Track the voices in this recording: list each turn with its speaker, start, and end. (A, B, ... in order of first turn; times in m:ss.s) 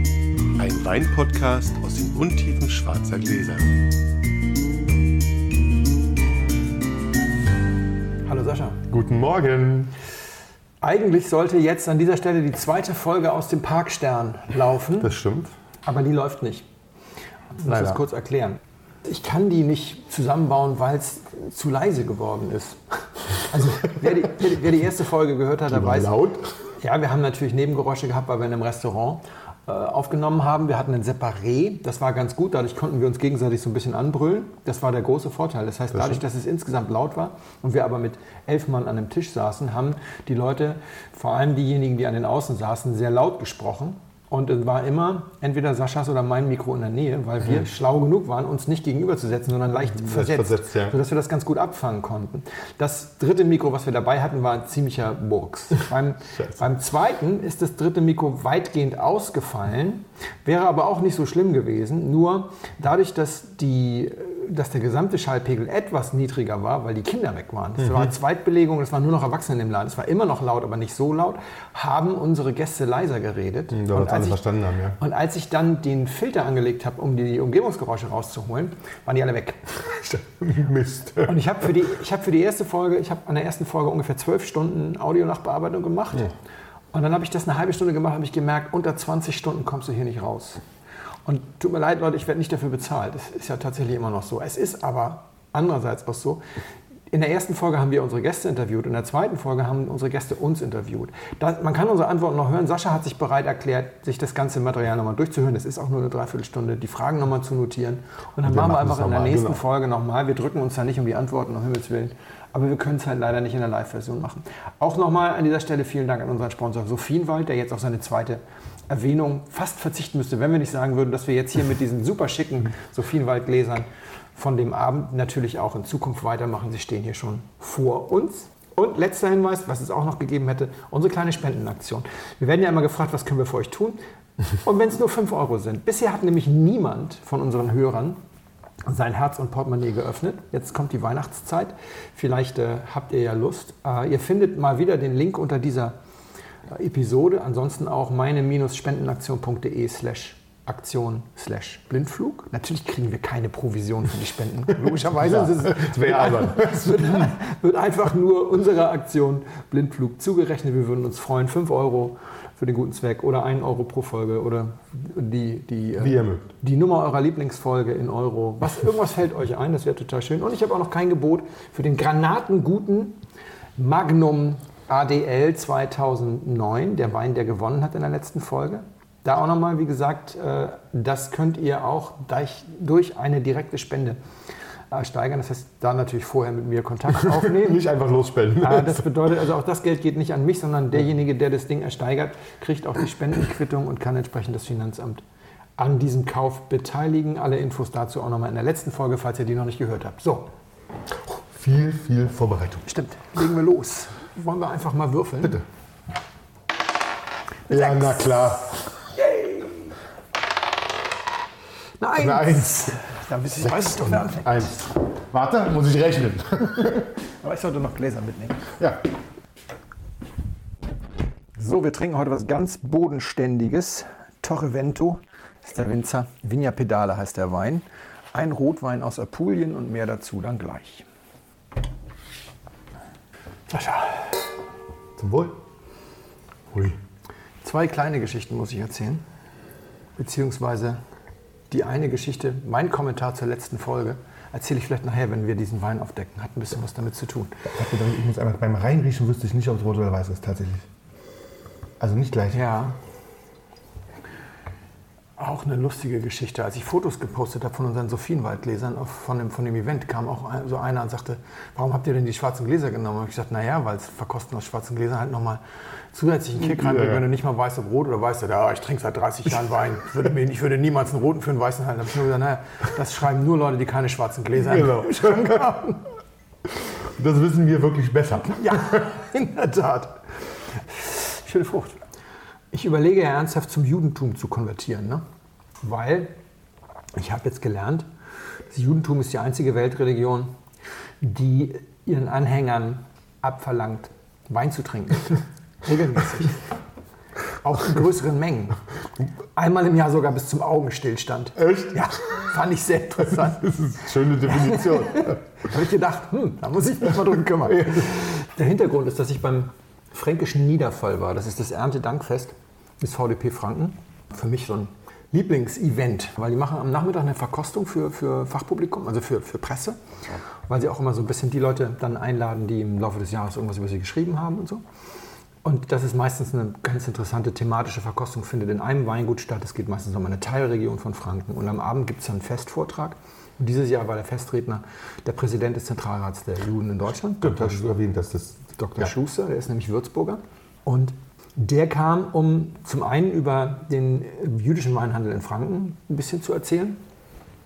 0:00.6-0:03.7 A
0:08.2-0:08.8 B
0:08.9-0:09.9 C
0:10.8-0:15.1 B
0:15.0-0:15.5 C
0:15.8-0:16.7 B
0:17.6-0:26.2 B
0:17.6-0:18.0 C
0:25.7-0:26.5 C
0:26.8-1:14.4 B
0:35.9-0:36.2 C
0:50.0-0:51.0 C
1:07.8-1:08.1 C
1:13.7-1:15.0 C
1:15.0-1:19.6 B
1:19.8-1:21.4 C
1:21.2-1:26.3 B
1:26.9-1:30.6 B
1:31.2-1:36.4 B
1:37.1-2:14.0 B
1:48.4-1:49.6 C
2:14.5-2:18.2 B
2:18.8-2:25.9 B
2:26.7-2:53.2 B
2:34.9-2:37.3 C
2:46.0-2:46.5 C
2:53.8-3:04.2 B
3:04.9-3:07.8 B
3:07.2-3:09.1 C
3:08.6-3:15.2 B
3:15.8-3:20.5 B
3:21.4-3:22.9 C
3:22.8-3:25.6 B
3:27.7-3:29.9 B
3:27.7-3:28.8 C
3:32.0-3:34.8 B
3:32.2-3:33.0 C
3:33.6-3:37.1 C
3:37.4-3:38.7 B
3:41.6-3:51.1 B
3:53.7-3:54.4 B
3:55.2-3:55.6 C
3:56.7-3:57.0 C
3:57.6-3:59.2 B
4:00.2-4:01.0 B
4:01.7-4:07.7 B
4:07.6-4:10.9 C
4:12.0-4:12.6 C
4:12.5-4:13.0 B
4:15.4-4:25.6 B
4:26.1-4:36.0 B
4:26.7-4:27.2 C
4:34.5-4:35.7 C
4:37.2-4:39.0 C
4:38.5-4:40.2 B
4:40.9-4:42.0 B
4:42.7-4:45.2 B
4:45.8-4:46.3 B
4:47.1-4:48.1 B
4:48.7-4:50.5 B
4:51.2-4:56.6 B
4:57.6-4:58.8 B
4:59.5-5:03.7 B
5:01.6-5:02.4 C
5:03.3-5:05.4 C
5:04.4-5:20.0 B
5:07.2-5:08.2 C
5:20.7-5:24.8 B
5:25.6-5:37.9 B
5:37.4-5:39.1 C
5:38.8-5:47.0 B